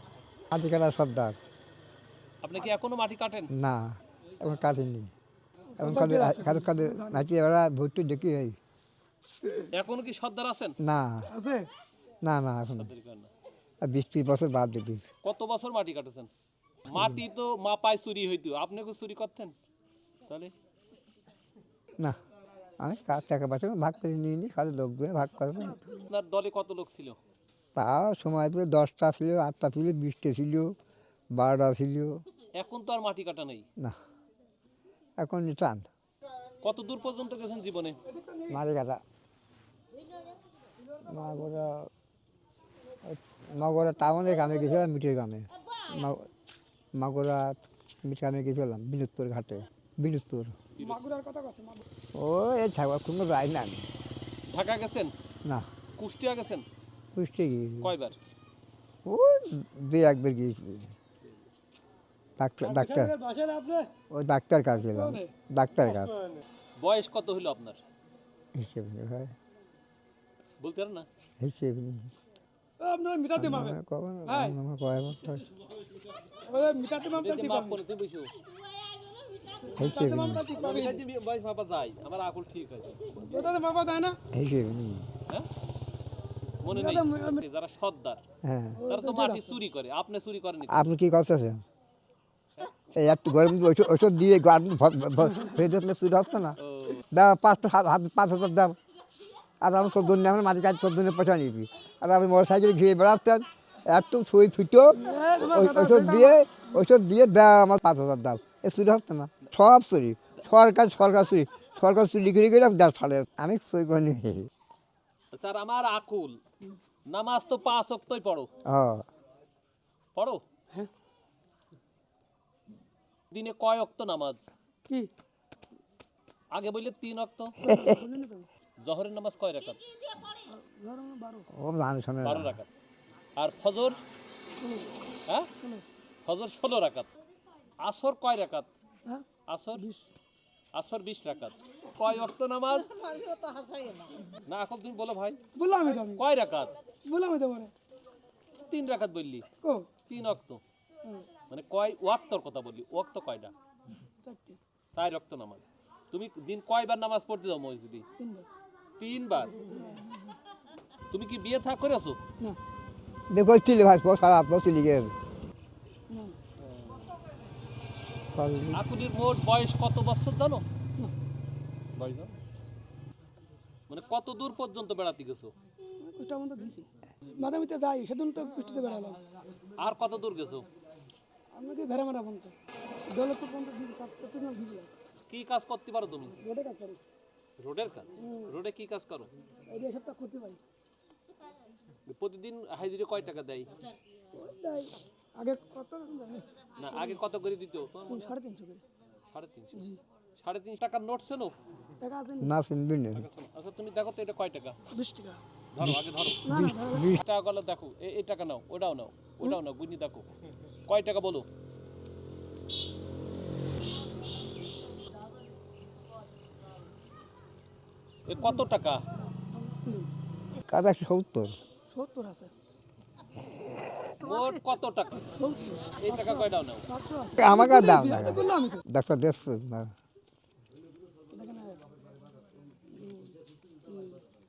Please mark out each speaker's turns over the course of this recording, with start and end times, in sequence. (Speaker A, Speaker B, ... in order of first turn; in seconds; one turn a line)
Speaker A: 0.5-1.4
Speaker B: 2.4-3.5
Speaker A: 3.5-5.1
Speaker C: 5.8-7.2
Speaker A: 5.8-8.6
Speaker B: 9.7-10.8
Speaker A: 10.8-11.3
Speaker C: 11.3-11.7
Speaker A: 12.2-12.9
Speaker B: 12.7-13.3
Speaker A: 13.8-15.1
Speaker B: 15.2-16.3
Speaker B: 16.9-19.5
Speaker A: 16.9-17.2
Speaker B: 20.3-20.5
Speaker A: 22.8-25.9
Speaker B: 26.1-27.2
Speaker A: 27.7-30.7
Speaker A: 31.3-32.2
Speaker B: 32.5-33.6
Speaker A: 35.2-35.9
Speaker B: 36.6-38.0
Speaker C: 38.1-38.6
Speaker A: 38.5-39.0
Speaker A: 41.0-41.9
Speaker A: 43.0-46.3
Speaker A: 46.9-50.5
Speaker B: 50.8-51.0
Speaker C: 50.8-51.8
Speaker A: 52.1-53.9
Speaker B: 54.5-55.1
Speaker B: 56.0-56.6
Speaker A: 57.1-57.9
Speaker B: 57.8-58.1
Speaker A: 59.0-60.9
Speaker A: 62.4-63.1
Speaker C: 62.6-63.9
Speaker A: 64.1-66.2
Speaker C: 64.8-65.3
Speaker B: 66.8-67.8
Speaker A: 68.5-69.3
Speaker B: 70.6-71.0
Speaker A: 71.4-72.1
Speaker C: 72.8-74.6
Speaker A: 73.3-75.4
Speaker C: 76.4-77.8
Speaker B: 77.1-78.3
Speaker C: 79.7-81.0
Speaker A: 79.7-80.4
Speaker B: 80.5-83.0
Speaker C: 83.1-84.2
Speaker A: 84.3-85.1
Speaker B: 86.6-88.2
Speaker C: 86.7-87.4
Speaker A: 88.4-88.8
Speaker C: 88.7-89.6
Speaker B: 88.8-90.9
Speaker A: 90.7-91.6
Speaker B: 92.6-92.9
Speaker A: 92.9-96.6
Speaker B: 96.6-97.0
Speaker A: 97.1-98.8
Speaker A: 99.6-114.5
Speaker C: 104.9-106.8
Speaker B: 115.3-116.4
Speaker B: 117.1-118.5
Speaker A: 118.7-119.0
Speaker B: 120.1-120.4
Speaker B: 123.3-124.4
Speaker B: 126.5-127.6
Speaker C: 127.6-128.5
Speaker B: 128.8-129.8
Speaker C: 130.5-131.5
Speaker A: 131.5-132.6
Speaker B: 132.2-132.7
Speaker B: 133.4-134.0
Speaker C: 134.6-134.9
Speaker B: 136.2-137.1
Speaker B: 137.8-138.7
Speaker C: 139.1-140.1
Speaker B: 139.5-139.8
Speaker B: 140.7-145.4
Speaker C: 145.5-146.2
Speaker B: 146.1-146.7
Speaker C: 147.0-147.7
Speaker B: 148.7-149.4
Speaker C: 149.6-149.9
Speaker B: 150.1-150.6
Speaker B: 151.5-153.5
Speaker C: 154.2-154.6
Speaker B: 154.9-158.0
Speaker C: 158.2-158.4
Speaker B: 159.0-159.6
Speaker C: 159.7-160.3
Speaker B: 161.1-162.2
Speaker A: 163.3-165.1
Speaker C: 166.1-166.4
Speaker B: 166.6-167.1
Speaker A: 168.3-168.8
Speaker B: 168.7-170.6
Speaker B: 171.9-172.3
Speaker B: 173.9-175.5
Speaker C: 176.0-179.2
Speaker B: 179.8-180.7
Speaker C: 181.5-182.5
Speaker C: 183.1-184.9
Speaker B: 185.3-186.3
Speaker C: 186.4-187.0
Speaker B: 187.6-189.3
Speaker C: 188.2-188.5
Speaker C: 189.7-190.6
Speaker B: 192.1-193.7
Speaker C: 194.3-197.2
Speaker B: 196.8-198.3
Speaker C: 198.1-198.8
Speaker B: 199.3-201.5
Speaker C: 202.0-202.5
Speaker A: 202.4-203.2
Speaker B: 203.1-204.8
Speaker C: 204.9-205.4
Speaker B: 205.7-206.4
Speaker C: 206.4-207.1
Speaker A: 206.5-207.2
Speaker B: 207.2-210.2
Speaker B: 210.9-211.4
Speaker B: 218.2-219.1
Speaker C: 219.7-220.1
Speaker A: 220.7-221.5
Speaker C: 221.9-222.5
Speaker B: 224.2-225.2
Speaker C: 225.3-228.8
Speaker B: 226.0-226.9
Speaker A: 227.4-229.9
Speaker C: 231.3-231.8
Speaker C: 232.9-234.2